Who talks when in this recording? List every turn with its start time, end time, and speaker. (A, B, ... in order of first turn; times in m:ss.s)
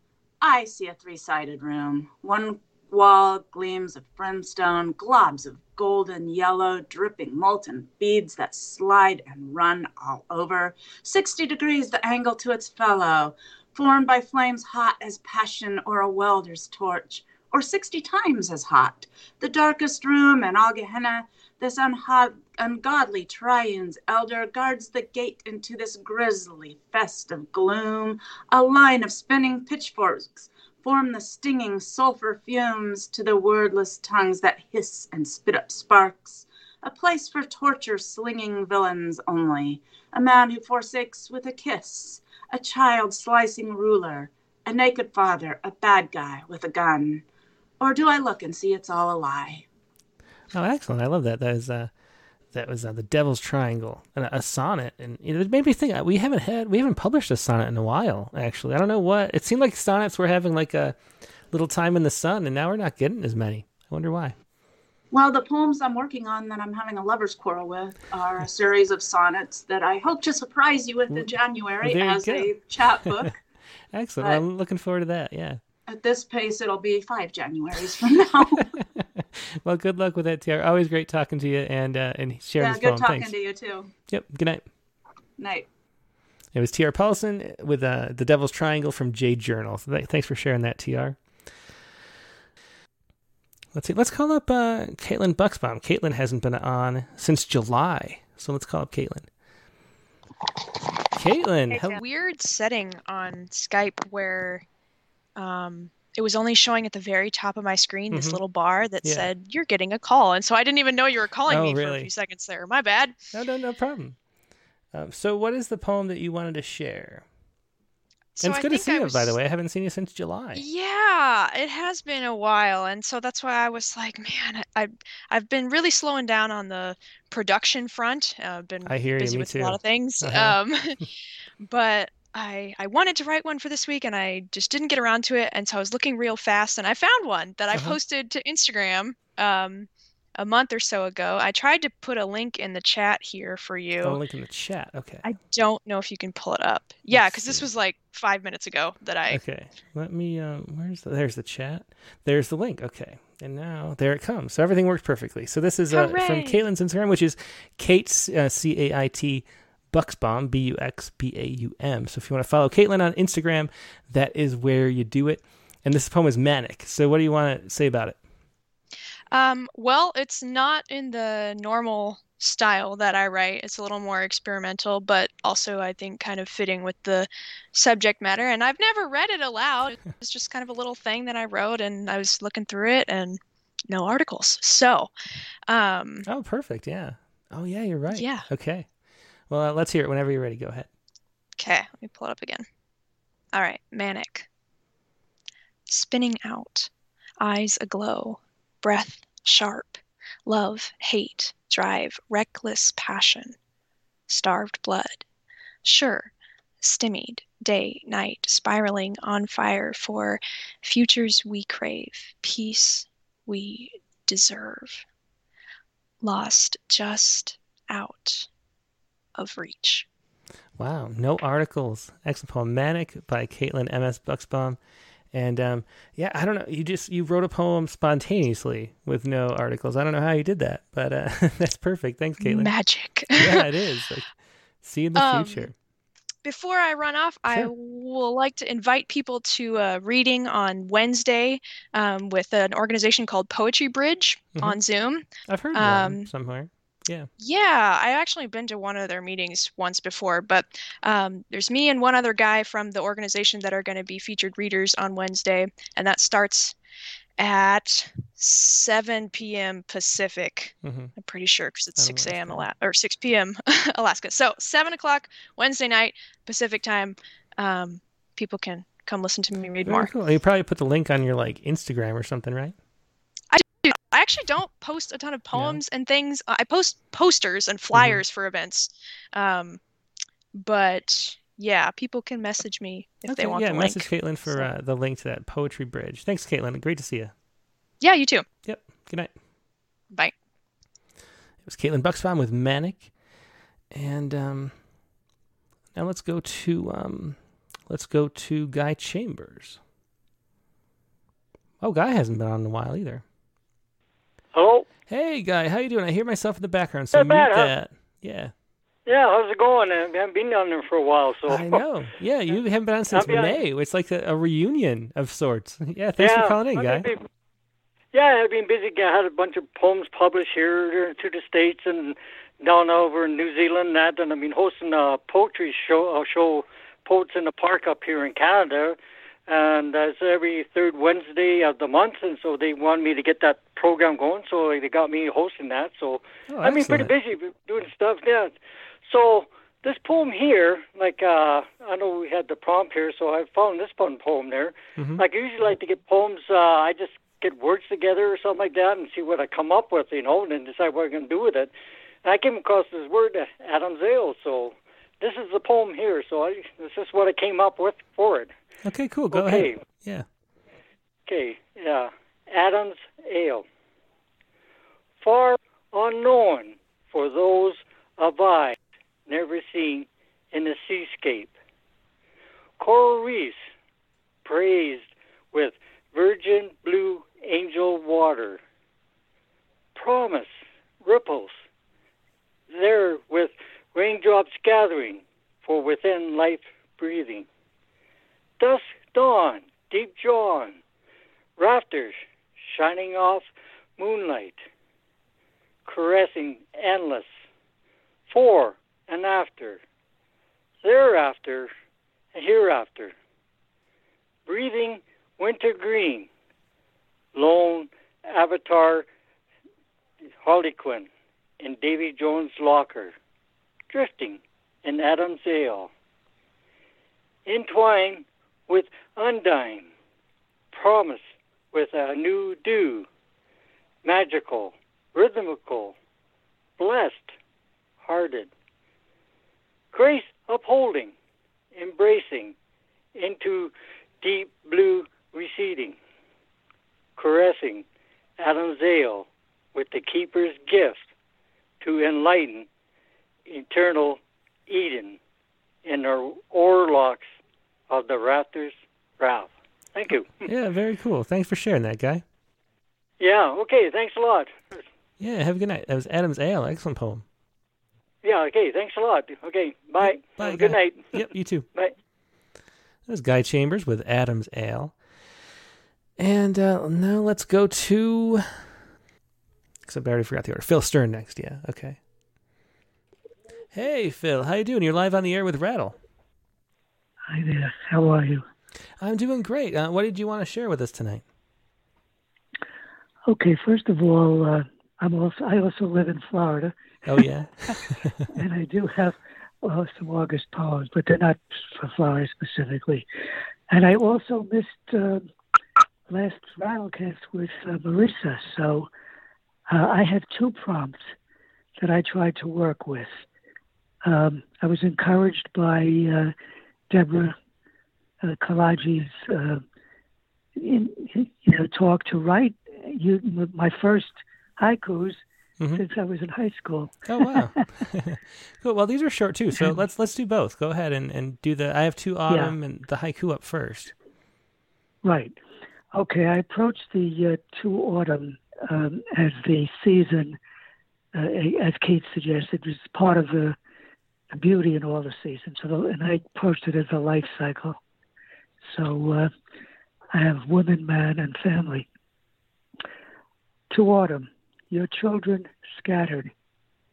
0:00.4-0:47.2 A
0:47.8-0:49.7 A
0:50.5-0:51.9 B
0:52.5-1:04.4 B
1:05.1-1:13.4 A
1:11.8-1:12.6 B
1:13.9-1:15.6 B
1:14.2-1:14.4 A
1:15.9-1:18.7 A
1:18.6-1:23.4 B
1:22.6-1:23.9 A
1:24.1-1:24.7 B
1:25.4-1:25.7 A
1:26.5-1:31.2 B
1:33.7-1:39.3 B
1:41.2-1:42.0 B
1:41.7-1:44.6 C
1:45.4-1:53.2 C
1:48.1-1:48.4 B
1:49.0-1:49.3 B
1:51.5-1:52.1 B
1:53.3-1:54.2 B
1:54.9-1:57.2 B
1:58.4-1:59.4 C
1:58.4-2:00.6 B
2:00.6-2:11.0 C
2:08.9-2:10.6 B
2:11.6-2:24.2 C
2:17.7-2:18.0 B
2:24.0-2:25.3 B
2:25.2-2:29.4 C
2:27.1-2:27.7 B
2:29.3-2:48.2 B
2:35.9-2:36.6 C
2:49.3-3:05.1 C
3:05.7-3:06.3 C
3:06.3-3:08.9 B
3:08.1-3:08.5 C
3:09.5-3:10.9 B
3:11.6-3:12.7 C
3:13.5-3:14.5 C
3:15.9-3:16.9 C
3:17.4-3:23.6 C
3:24.3-3:25.2 C
3:25.8-3:35.0 C
3:36.2-3:38.5 C
3:39.4-3:40.0 C
3:40.8-3:44.8 B
3:45.3-3:52.8 B
3:52.4-3:53.7 C
3:53.3-3:55.7 B
3:55.2-3:55.7 C
3:56.4-4:06.3 C
3:57.5-3:57.7 B
4:04.5-4:04.8 B
4:05.4-4:07.3 B
4:07.4-4:16.8 C
4:17.4-4:30.1 C
4:20.8-4:21.1 B
4:22.0-4:22.7 B
4:29.8-4:32.7 B
4:33.5-4:39.8 C
4:35.5-4:35.8 B
4:37.9-4:38.2 B
4:40.5-4:44.7 C
4:43.3-4:47.3 B
4:48.0-4:48.5 C
4:48.6-4:49.3 B
4:51.6-4:53.1 B
4:53.9-4:54.8 B
4:56.0-4:59.8 B
5:01.8-5:03.2 B
5:04.5-5:04.9 D
5:05.1-5:08.5 B
5:07.1-5:07.7 D
5:09.1-5:11.8 D
5:11.5-5:17.1 B
5:13.1-5:13.6 D
5:16.2-5:17.3 D
5:18.1-5:51.7 D
5:36.5-5:37.1 B
5:45.0-5:45.2 B
5:52.2-5:58.5 D
5:58.8-6:00.3 B
5:59.3-5:59.8 D
6:01.3-6:03.6 D
6:05.2-6:08.8 D
6:09.3-6:11.5 D
6:12.8-6:13.6 D
6:14.4-6:18.6 D
6:20.0-6:20.5 D
6:21.0-6:21.6 D
6:22.7-6:27.5 D
6:28.6-6:30.8 D
6:31.6-6:34.6 D
6:35.8-6:37.3 D
6:38.3-6:39.8 D
6:40.8-6:41.7 D
6:42.3-6:43.1 D
6:44.5-6:46.3 D
6:47.4-6:49.1 D
6:50.4-6:51.1 D
6:51.6-6:53.1 D
6:53.9-6:55.9 D
6:57.5-6:59.9 D
7:00.7-7:03.1 D
7:04.0-7:06.0 D
7:06.8-7:07.3 D
7:08.0-7:08.5 D
7:09.9-7:11.1 D
7:11.8-7:12.6 D
7:13.2-7:16.0 D
7:17.2-7:17.8 D
7:18.4-7:21.0 D
7:21.8-7:22.7 D
7:23.5-7:25.2 D
7:25.8-7:27.3 D
7:27.9-7:30.5 D
7:30.4-7:32.2 B
7:33.2-7:34.8 D
7:35.2-7:37.2 B
7:38.2-7:41.9 D
7:40.0-7:41.7 B
7:43.1-7:45.0 B
7:46.2-7:48.6 B
7:49.9-7:52.0 B
7:53.7-7:56.0 B
7:57.3-7:58.4 E
7:59.0-8:01.2 B
8:03.3-8:07.8 E
8:07.1-8:08.3 B
8:08.3-8:13.1 E
8:13.7-8:15.3 E
8:16.1-8:18.9 E
8:19.7-8:21.0 E
8:21.8-8:23.1 E
8:24.0-8:26.3 E
8:26.9-8:27.4 E
8:28.2-8:29.6 E
8:30.6-8:35.2 E
8:35.6-8:35.8 B
8:35.8-8:37.6 E
8:37.1-8:43.9 B
8:42.3-8:42.6 E
8:45.0-8:45.4 E
8:45.9-8:50.4 E
8:51.1-8:53.6 E
8:54.3-8:57.8 E
8:58.6-8:59.3 E
9:00.1-9:01.9 E
9:03.7-9:06.3 E